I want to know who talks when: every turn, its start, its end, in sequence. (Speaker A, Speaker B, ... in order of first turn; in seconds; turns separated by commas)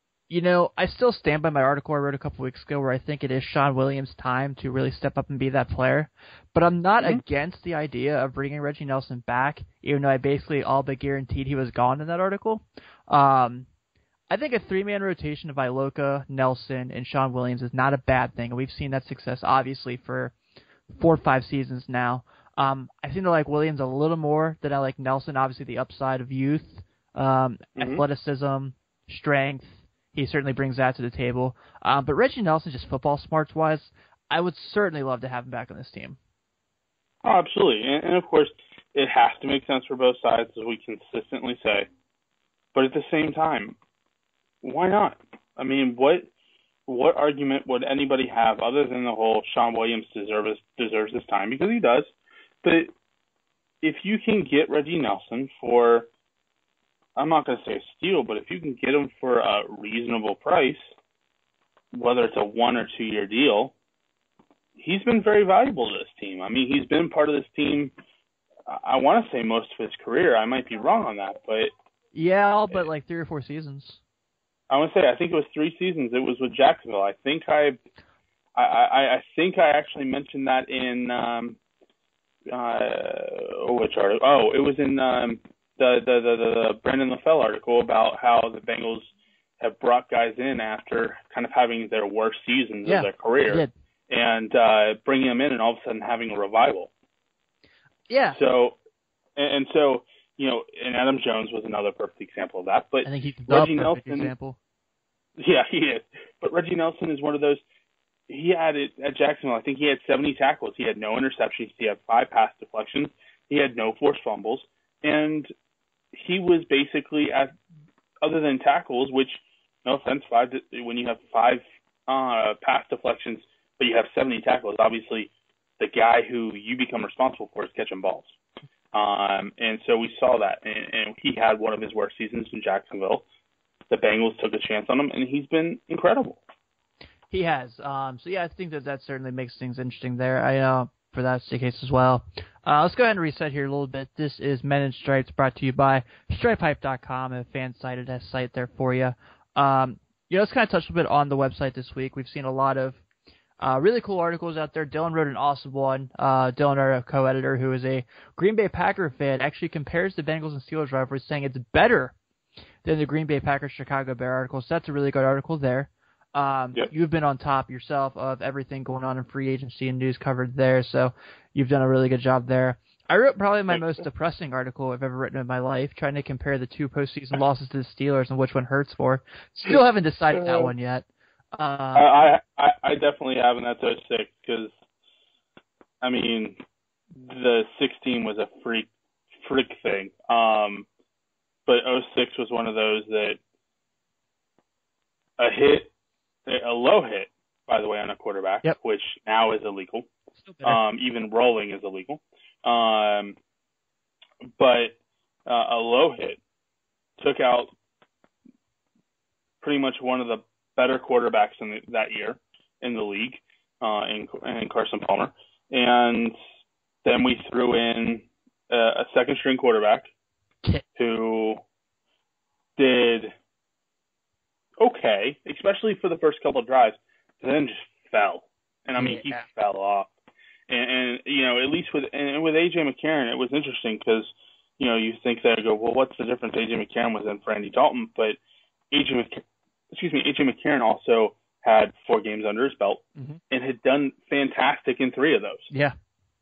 Speaker A: 0.3-13.7, Speaker A: 14.3-20.3, Speaker A: 20.9-36.2, Speaker B: 27.8-28.0, Speaker B: 37.2-41.9, Speaker B: 42.7-43.8, Speaker B: 44.6-46.3, Speaker B: 46.9-52.1, Speaker B: 52.6-52.9, Speaker B: 53.8-56.1, Speaker B: 57.1-60.9, Speaker B: 61.9-63.7, Speaker B: 64.8-67.9, Speaker B: 68.7-71.7, Speaker A: 72.1-74.0, Speaker B: 74.7-77.8, Speaker B: 78.5-81.6, Speaker B: 82.5-96.9, Speaker A: 92.8-93.7, Speaker A: 98.1-98.4, Speaker B: 98.3-98.8, Speaker B: 99.3-104.3, Speaker A: 103.0-104.6, Speaker B: 105.4-107.6, Speaker B: 108.3-115.5, Speaker B: 116.1-117.5, Speaker B: 118.2-128.3, Speaker B: 128.9-133.2, Speaker B: 133.9-136.4, Speaker A: 137.3-153.0, Speaker A: 153.6-162.1, Speaker A: 162.8-182.2, Speaker B: 180.4-180.7, Speaker B: 181.9-184.7, Speaker B: 186.0-186.6, Speaker B: 187.1-188.9, Speaker B: 189.4-190.9, Speaker B: 191.7-193.4, Speaker B: 195.4-195.9, Speaker B: 196.4-200.1, Speaker A: 200.4-200.8, Speaker B: 200.6-203.4, Speaker B: 204.6-206.4, Speaker B: 207.2-207.7, Speaker B: 209.6-216.3, Speaker B: 217.0-220.1, Speaker B: 220.9-221.6, Speaker B: 222.8-223.3, Speaker B: 224.8-230.1, Speaker A: 229.0-229.4, Speaker B: 230.7-238.4, Speaker B: 238.9-245.7